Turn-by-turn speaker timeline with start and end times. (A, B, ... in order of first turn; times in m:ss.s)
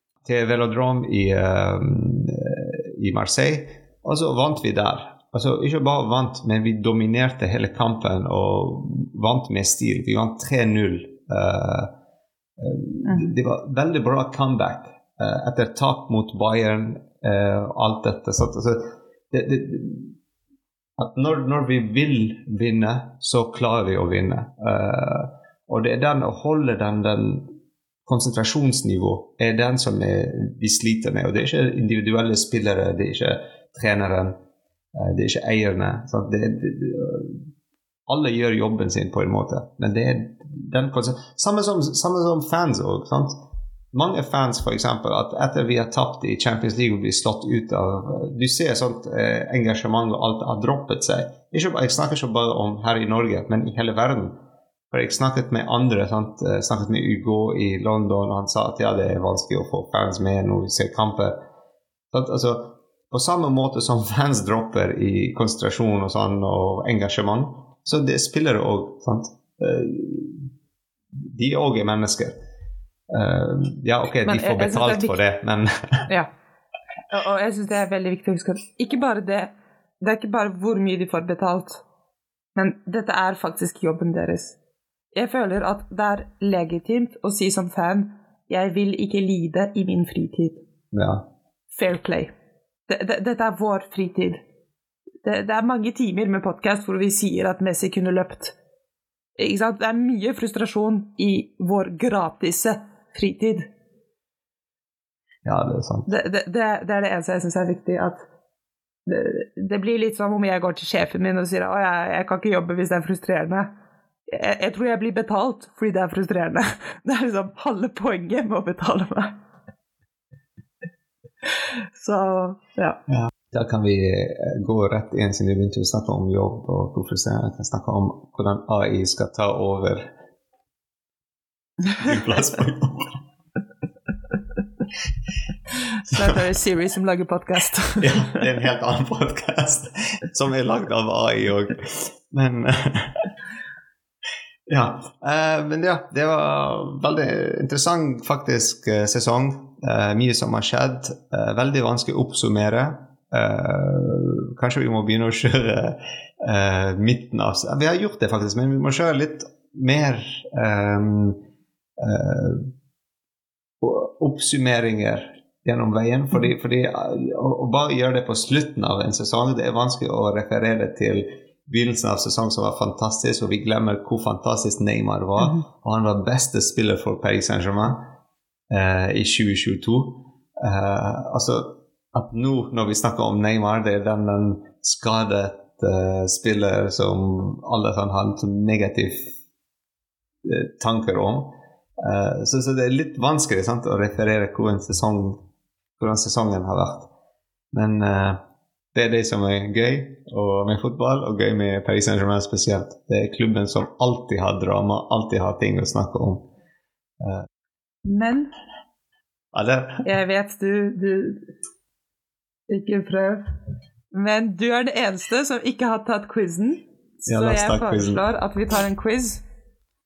0:00.2-0:11.9 A
0:12.6-0:20.2 A
0:13.0-0:13.4 B
0:21.0-0:27.6 A
0:28.1-0:34.4 A
0:35.0-0:37.5 A
0:38.1-0:54.4 A
0:54.9-1:01.4 A
1:02.1-1:10.5 A
1:11.2-1:12.4 A
1:13.1-1:16.1 A
1:14.2-1:15.2 B
1:17.1-1:21.8 B
1:22.6-1:24.6 B
1:25.1-1:30.6 B
1:30.9-1:31.3 A
1:31.7-1:32.3 B
1:32.9-1:34.4 B
1:35.2-1:38.6 B
1:39.4-1:43.7 B
1:45.4-1:46.1 A
1:46.1-1:48.2 B
1:49.1-1:53.7 B
1:54.3-1:59.4 B
2:02.0-2:03.0 B
2:03.1-2:10.1 A
2:12.0-2:13.2 A
2:16.1-2:18.2 B
2:18.0-2:23.2 A
2:24.7-2:41.4 A
2:42.0-2:42.7 A
2:43.8-2:58.1 A
2:58.7-3:09.3 A
3:10.4-3:15.4 A
3:16.0-3:17.1 A
3:17.7-3:18.4 A
3:18.9-3:26.5 A
3:27.2-3:27.5 A
3:28.0-3:28.5 B
3:29.5-3:30.1 A
3:30.0-3:31.4 B
3:32.7-3:33.5 B
3:34.1-3:39.4 B
3:37.3-3:38.3 A